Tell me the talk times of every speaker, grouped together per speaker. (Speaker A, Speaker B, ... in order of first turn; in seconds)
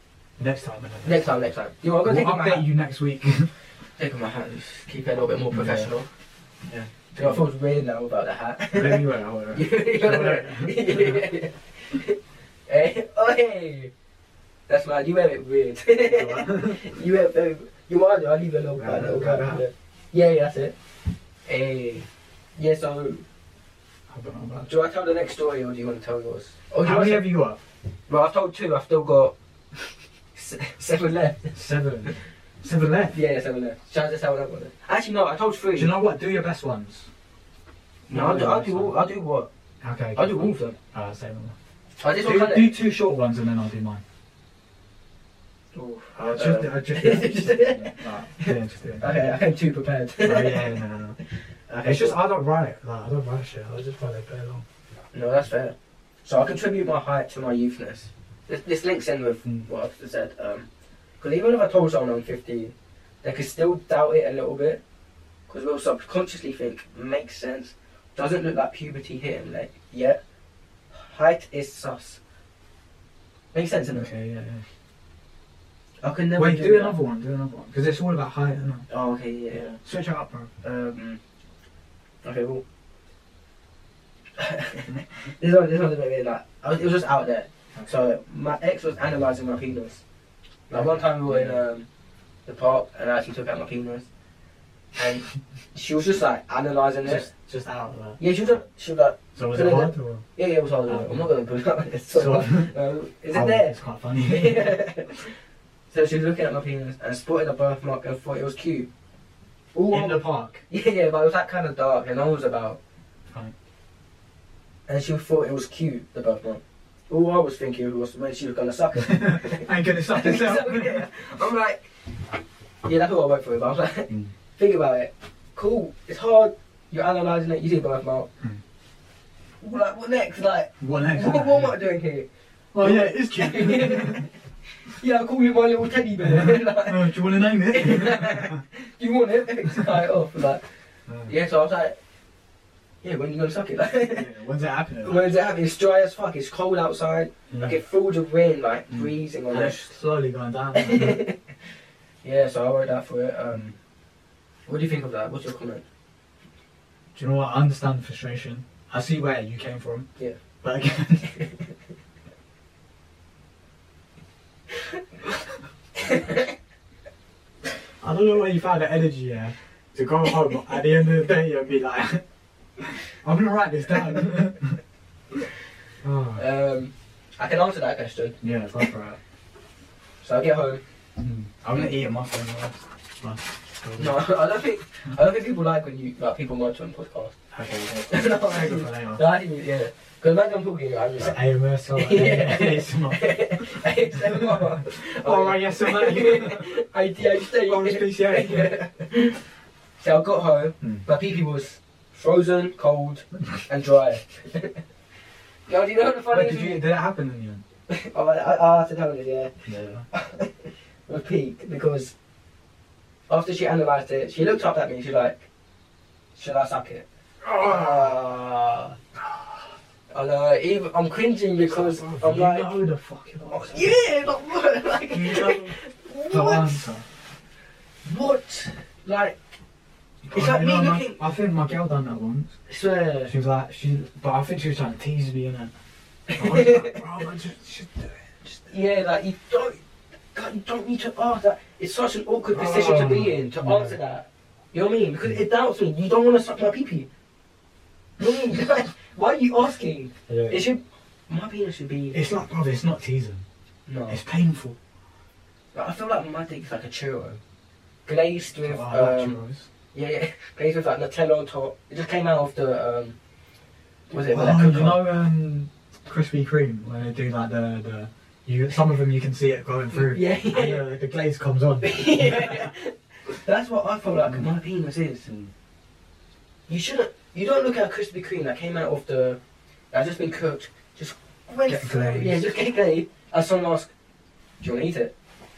Speaker A: 0.4-1.2, 2.0-3.5, 5.5-5.9, 6.7-7.4, 8.7-11.2, 16.0-16.9, 18.8-19.6, 24.1-24.7, 26.8-27.6, 31.5-33.1, 35.7-37.1, 38.1-39.0, 39.8-41.5, 42.2-44.0, 45.8-49.3, 50.2-51.2, 51.8-54.6, 73.9-74.6, 76.3-78.9, 79.5-81.0, 90.7-91.6, 97.0-98.2, 99.3-100.2, 100.8-101.3, 102.1-102.7, 103.3-104.8, 109.9-110.6, 119.0-121.0, 130.8-131.8, 132.7-134.3, 136.2-138.6, 141.1-141.3, 144.1-145.3, 147.5-147.8, 148.9-151.2, 157.1-160.1, 160.6-161.4, 168.0-172.2, 172.8-174.8, 176.0-176.4, 178.4-179.2, 181.2-184.2, 187.5-189.2, 191.2-196.8, 197.5-198.8, 200.8-201.1, 206.3-207.6, 209.7-210.0, 217.4-218.2, 219.2-219.4, 221.6-223.9, 225.1-225.8, 226.3-227.1, 230.2-232.5, 233.3-235.7, 236.3-238.7, 242.5-244.0, 250.3-250.6, 252.1-253.4, 254.1-254.8, 258.6-259.7, 264.3-272.7, 275.2-275.5, 281.6-282.5
Speaker B: 1.0-2.7, 4.0-6.1, 7.1-13.9, 14.7-20.7, 21.4-23.2, 24.6-27.3, 28.1-29.3, 30.3-31.6, 33.1-36.0, 38.1-39.5, 40.1-40.7, 42.0-42.8, 45.8-50.8, 51.7-52.2, 55.1-60.7, 61.2-64.8, 65.5-70.2, 70.9-72.2, 73.5-74.1, 76.0-77.0, 78.9-79.7, 80.9-81.2, 82.2-82.6, 84.4-90.0, 90.7-91.8, 92.5-94.1, 95.0-97.3, 98.2-105.3, 105.9-108.9, 109.7-112.8, 114.9-121.9, 122.8-128.3, 129.6-132.3, 132.8-134.3, 134.8-140.6, 141.3-141.9, 143.0-144.3, 145.0-149.9, 150.7-151.4, 152.2-153.7, 154.7-155.8, 166.0-166.5, 176.4-178.4, 180.2-180.8, 184.0-187.3, 188.1-191.4, 191.9-199.4, 200.0-204.8, 205.7-206.9, 207.9-209.5, 210.1-212.1, 213.3-215.4, 216.3-217.0, 217.6-218.9, 220.1-222.8, 223.5-226.9, 228.0-229.4, 230.3-231.2, 232.7-233.3, 236.3-237.0, 238.7-239.8, 240.3-247.1, 248.2-252.2, 253.9-254.2, 255.7-257.4, 258.1-259.4, 259.9-263.1, 264.1-265.0, 269.9-270.9, 271.8-275.3, 276.7-279.4, 279.9-283.9, 284.6-285.1